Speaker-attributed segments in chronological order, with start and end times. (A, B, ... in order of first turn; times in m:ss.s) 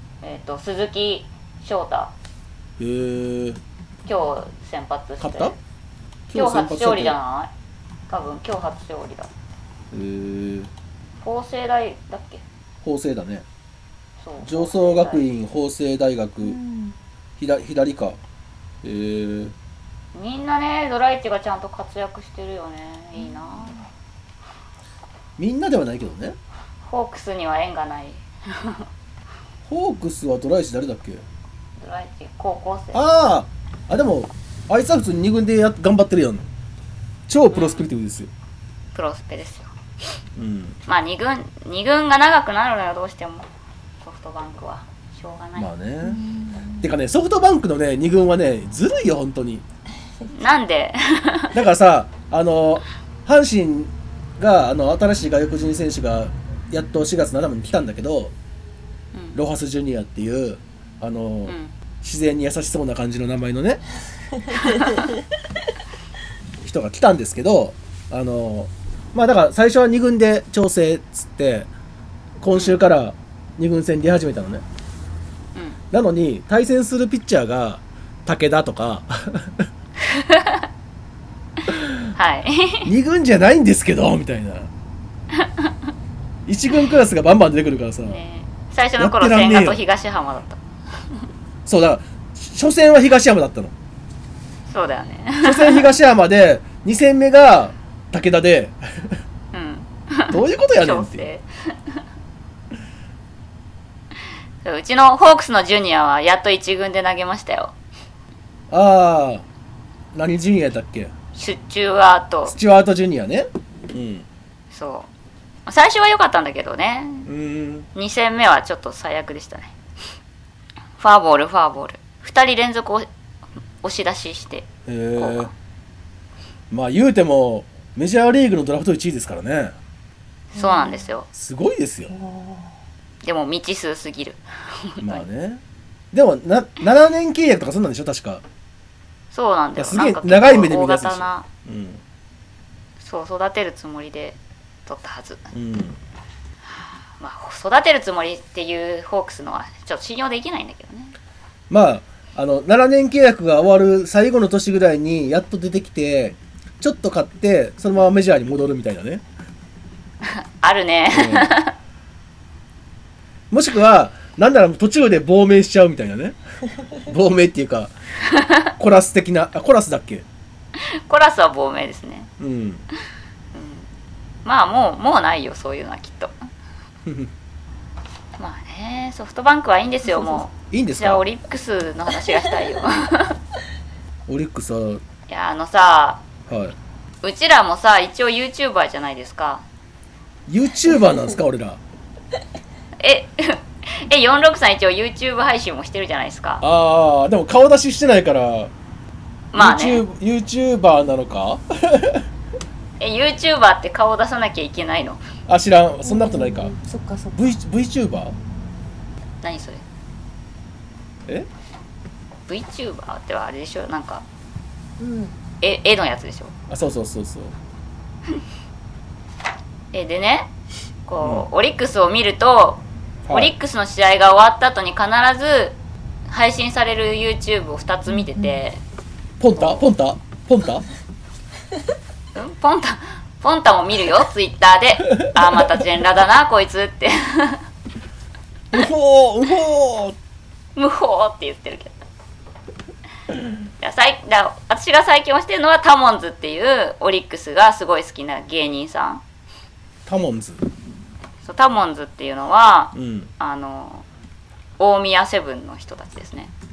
0:00.2-0:02.1 A
0:02.8-0:03.6 B
0:04.1-0:05.6 A
0:05.2-0:05.6 B
0:06.3-0:07.2 B
0:06.3-0:07.5 A
0:08.1-0:09.3 A
0:09.9-0:10.7 B
0:11.2-0:12.4 A
0:12.8-0:13.4 B
0:14.2-0:15.3 A
0:14.4-0:16.6 B
0:16.4-0:17.0 C
0:17.4-0:18.2 B
0:18.8-0:19.6 B
0:20.1-0:23.8 A
0:23.2-0:23.7 C
0:25.4-0:26.4 B
0:26.8-0:28.9 A
0:29.6-0:31.2 B
0:31.8-0:33.0 A
0:32.9-0:36.5 B
0:37.3-0:38.3 B
0:37.5-0:37.9 A
0:38.9-0:39.7 A
0:40.4-0:40.8 B
0:40.9-0:43.5 A
0:44.0-0:45.7 A
0:45.6-0:46.2 B
0:46.0-0:46.8 C
0:46.8-0:49.6 B
0:50.3-0:51.6 A
0:51.5-0:58.3 B
0:59.4-1:03.8 B
1:01.5-1:01.7 A
1:06.6-1:11.7 B
1:12.4-1:14.6 B
1:12.5-1:12.8 A
1:15.9-1:19.7 B
1:20.1-1:20.6 A
1:21.7-1:22.1 B
1:22.1-1:22.9 A
1:22.9-1:24.7 B
1:25.4-1:25.7 A
1:26.5-1:28.2 B
1:28.1-1:30.6 A
1:29.0-1:29.8 B
1:31.6-1:33.7 B
1:34.7-1:35.8 A
1:35.4-1:39.2 B
1:39.5-1:42.0 A
1:40.3-1:41.3 B
1:44.6-1:47.7 A
1:48.7-1:49.4 B
1:50.1-1:51.1 B
1:51.4-1:52.6 A
1:52.5-1:54.3 B
1:54.7-1:55.1 A
1:55.6-1:57.3 A
1:57.3-1:57.9 B
1:58.0-1:59.7 A
2:01.0-2:03.1 A
2:03.8-2:05.5 A
2:04.9-2:05.5 B
2:06.7-2:09.8 B
2:10.6-2:11.1 C
2:10.6-2:11.3 A
2:11.3-2:12.1 B
2:12.1-2:12.7 C
2:13.2-2:15.2 A
2:15.0-2:18.4 B
2:19.3-2:21.5 A
2:19.8-2:22.0 B
2:23.0-2:25.5 A
2:25.5-2:26.0 B
2:27.2-2:31.1 A
2:31.7-2:39.2 B
2:40.3-2:41.7 A
2:41.1-2:41.5 B
2:43.5-2:46.4 B
2:47.0-2:47.9 B
2:48.3-2:48.6 A
2:48.8-2:50.2 B
2:50.8-2:52.3 A
2:52.4-2:52.8 B
2:53.5-2:53.9 A
2:54.4-2:56.3 A
2:57.0-2:57.3 B
2:58.4-3:03.4 A
3:00.6-3:01.2 B
3:04.3-3:05.0 B
3:05.3-3:06.2 A
3:06.5-3:06.8 B
3:07.2-3:09.6 A
3:10.5-3:11.8 B
3:13.0-3:16.6 A
3:16.6-3:18.7 B
3:19.5-3:20.0 A
3:19.5-3:22.3 B
3:23.0-3:25.2 A
3:25.5-3:26.7 B
3:26.0-3:27.5 C
3:27.4-3:28.4 B
3:29.4-3:29.8 A
3:32.5-3:34.2 A
3:35.0-3:35.4 C
3:35.6-3:36.5 A
3:36.7-3:37.6 B
3:39.9-3:40.5 A
3:41.1-3:45.8 A
3:41.2-3:41.5 B
3:43.2-3:43.5 B
3:46.3-3:48.8 A
3:48.1-3:48.6 C
3:49.4-3:50.8 B
3:49.6-3:49.8 A
3:52.4-3:57.6 A
3:58.7-4:00.2 B
4:00.8-4:01.9 A
4:03.8-4:09.2 A
4:10.1-4:10.6 B
4:11.4-4:14.1 A
4:12.9-4:13.3 B
4:14.8-4:16.5 A